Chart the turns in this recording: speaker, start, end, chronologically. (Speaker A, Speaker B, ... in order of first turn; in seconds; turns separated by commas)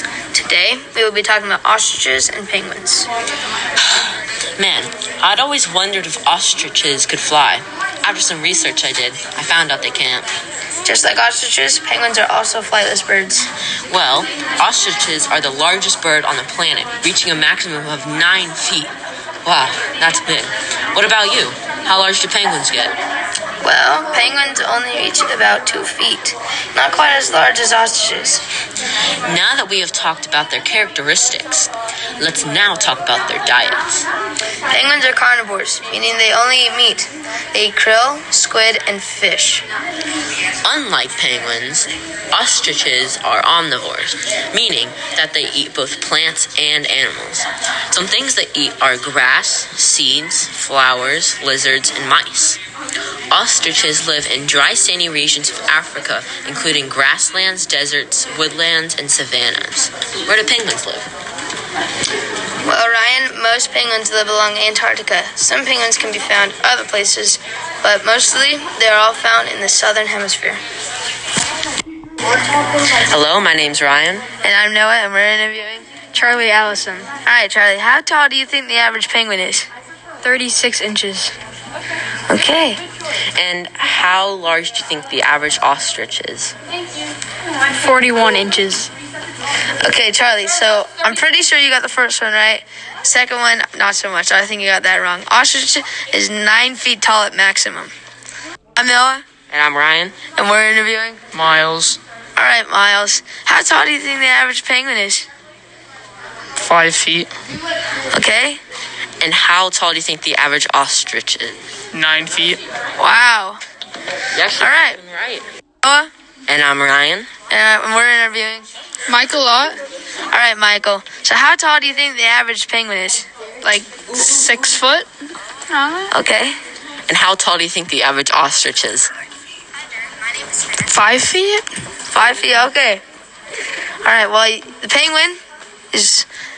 Speaker A: 0.3-3.1, Speaker B: 3.8-10.3, Speaker A: 10.8-13.5, Speaker B: 13.9-18.9, Speaker B: 19.4-23.0, Speaker A: 23.6-28.4, Speaker B: 29.2-34.1, Speaker A: 34.7-39.6, Speaker B: 40.6-52.6, Speaker B: 53.3-61.1, Speaker A: 62.6-70.6, Speaker B: 72.9-74.3, Speaker A: 74.4-75.8, Speaker C: 76.1-77.1, Speaker A: 77.2-79.7, Speaker C: 80.2-81.3, Speaker A: 82.3-82.8, Speaker B: 83.4-86.5, Speaker C: 87.8-88.9, Speaker A: 89.8-97.9, Speaker A: 98.8-99.2, Speaker B: 99.5-100.2, Speaker A: 100.3-101.2, Speaker D: 101.3-102.0, Speaker A: 102.4-105.3, Speaker D: 106.6-107.3, Speaker A: 108.1-108.6, Speaker B: 109.2-111.6, Speaker D: 111.9-112.6, Speaker A: 113.0-113.6, Speaker B: 114.3-115.5, Speaker A: 114.6-115.0, Speaker A: 115.8-116.1, Speaker B: 116.5-117.3, Speaker A: 117.5-118.7, Speaker C: 119.1-119.8, Speaker A: 120.3-124.2, Speaker C: 124.1-125.1, Speaker C: 125.7-126.1, Speaker A: 126.1-126.6, Speaker B: 127.1-129.1, Speaker C: 130.9-131.7, Speaker A: 132.1-133.0, Speaker A: 134.0-135.4, Speaker A: 135.9-136.3